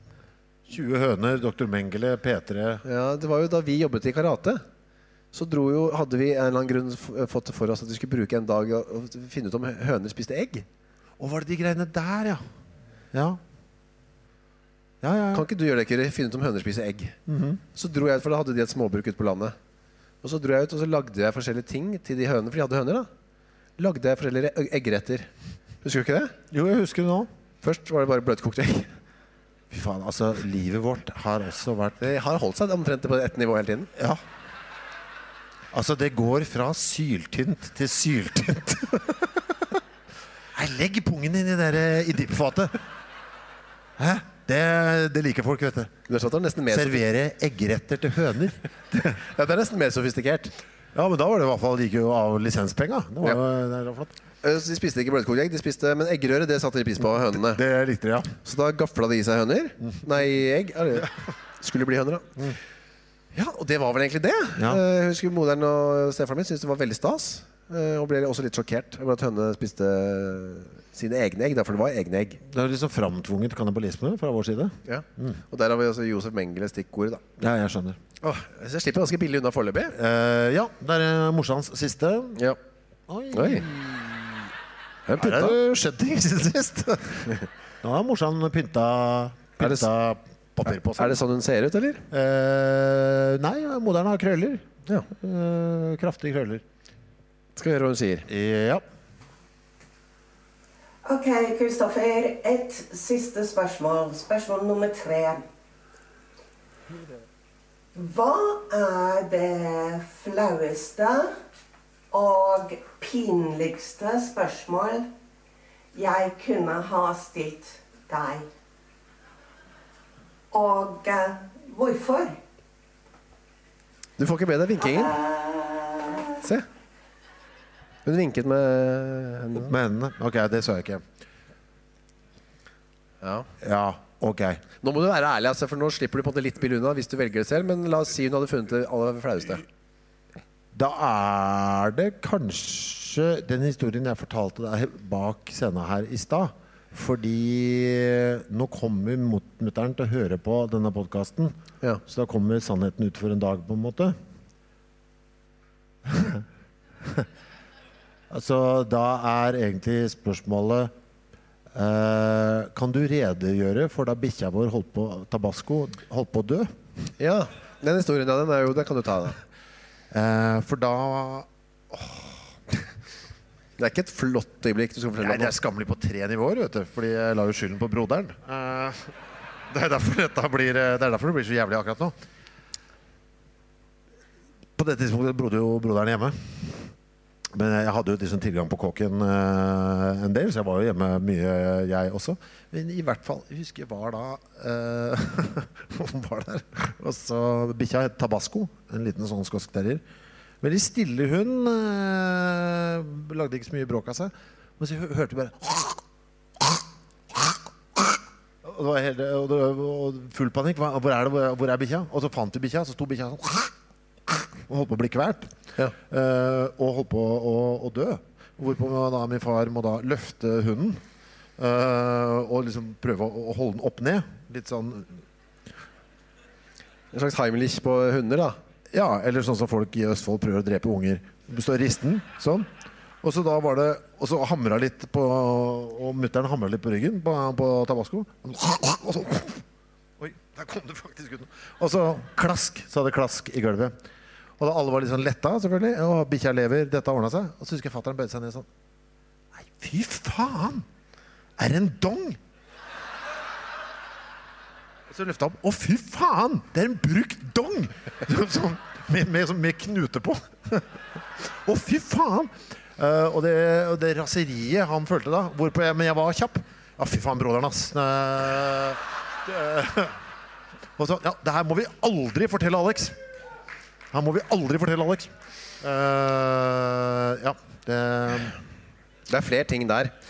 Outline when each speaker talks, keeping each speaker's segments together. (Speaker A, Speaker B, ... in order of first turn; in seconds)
Speaker A: 0.7-2.8, 11.2-12.4, 13.1-13.4, 15.0-15.4, 17.3-17.6, 26.5-27.3, 29.7-32.1, 34.0-34.2, 35.7-39.6, 40.5-42.8, 44.0-45.9, 46.7-49.2, 50.9-54.2, 57.3-58.4, 72.5-75.4, 77.4-78.0, 79.9-82.4, 83.1-84.5, 85.2-91.2, 92.1-96.6, 98.3-98.8, 129.6-131.0, 133.6-134.6, 140.7-154.2, 156.1-156.4, 158.3-160.9, 161.7-166.7, 170.1-172.3, 175.2-179.1, 179.7-182.2, 184.8-186.9, 187.5-200.0, 200.6-206.0, 206.6-213.7, 214.3-221.0, 221.6-225.2, 228.9-232.7, 233.2-239.6, 240.2-243.9, 244.6-248.7, 249.6-250.9, 251.6-252.4, 255.1-270.2, 271.0-273.2, 274.1-278.6
Speaker B: 2.9-4.6, 5.3-10.7, 15.3-17.2, 17.8-19.6, 20.2-23.1, 23.8-25.3, 25.8-26.3, 27.6-28.9, 32.0-33.9, 46.1-47.0, 49.1-50.5, 54.4-57.6, 58.4-62.4, 63.3-72.4, 74.9-77.2, 78.2-79.9, 83.3-83.7, 85.1-85.6, 89.6-89.9, 91.0-92.0, 97.6-98.3, 124.2-125.2, 128.1-129.7, 133.2-133.5, 134.8-139.7, 167.2-169.4, 173.8-175.6, 227.1-228.6, 279.3-280.1
Speaker C: 101.0-105.4, 108.0-111.3, 112.1-115.1, 115.9-118.5, 120.5-122.4, 124.8-126.4